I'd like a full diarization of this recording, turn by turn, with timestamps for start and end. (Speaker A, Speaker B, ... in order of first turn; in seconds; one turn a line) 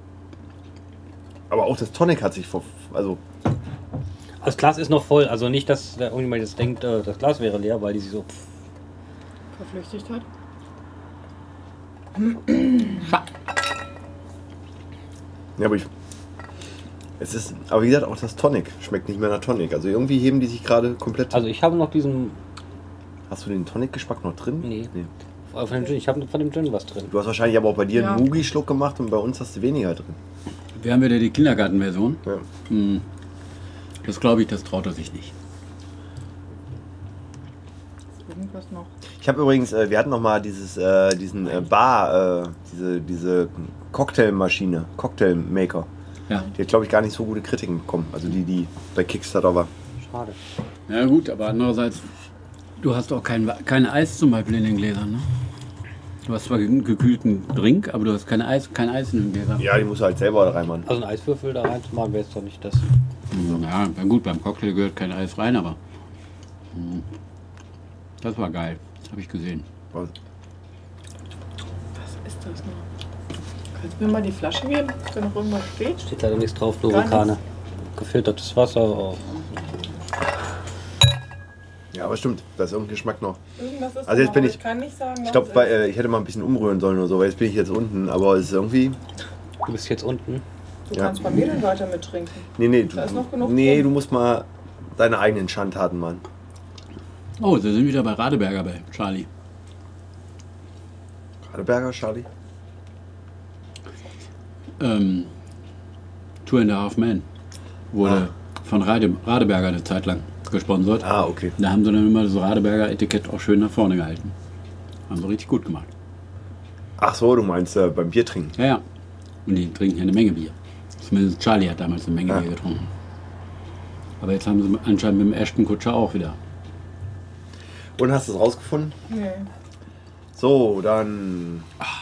Speaker A: 1.5-3.2
Speaker B: 4.4-8.5
Speaker C: 9.5-10.2
Speaker C: 12.2-13.1
Speaker A: 15.6-15.9
Speaker A: 17.2-21.4
Speaker B: 21.3-22.4
Speaker A: 23.3-25.1
Speaker B: 24.6-24.9
Speaker B: 25.5-27.1
Speaker A: 27.1-30.2
Speaker C: 27.9-28.2
Speaker D: 30.8-33.0
Speaker D: 34.0-35.3
Speaker C: 38.2-38.9
Speaker A: 39.2-45.9
Speaker A: 46.5-49.7
Speaker B: 50.0-50.4
Speaker D: 50.9-52.1
Speaker D: 52.8-55.3
Speaker D: 56.2-59.7
Speaker A: 59.6-60.9
Speaker B: 60.9-62.9
Speaker D: 63.3-65.8
Speaker D: 66.7-67.0
Speaker D: 68.2-69.7
Speaker C: 72.0-72.9
Speaker C: 73.7-76.1
Speaker B: 76.0-77.4
Speaker C: 76.9-77.4
Speaker B: 77.9-79.2
Speaker A: 81.9-83.4
Speaker C: 83.6-85.8
Speaker A: 84.0-84.6
Speaker A: 85.2-89.0
Speaker B: 89.6-90.4
Speaker C: 90.9-93.9
Speaker A: 92.6-96.2
Speaker D: 97.4-99.3
Speaker A: 101.5-102.3
Speaker D: 104.8-105.3
Speaker D: 106.4-107.2
Speaker D: 107.9-114.3
Speaker A: 111.0-111.5
Speaker D: 115.1-115.9
Speaker A: 117.0-118.6
Speaker D: 118.6-118.8
Speaker D: 119.5-122.9
Speaker D: 124.2-126.4
Speaker A: 128.0-128.9
Speaker C: 129.1-129.5
Speaker A: 130.3-131.7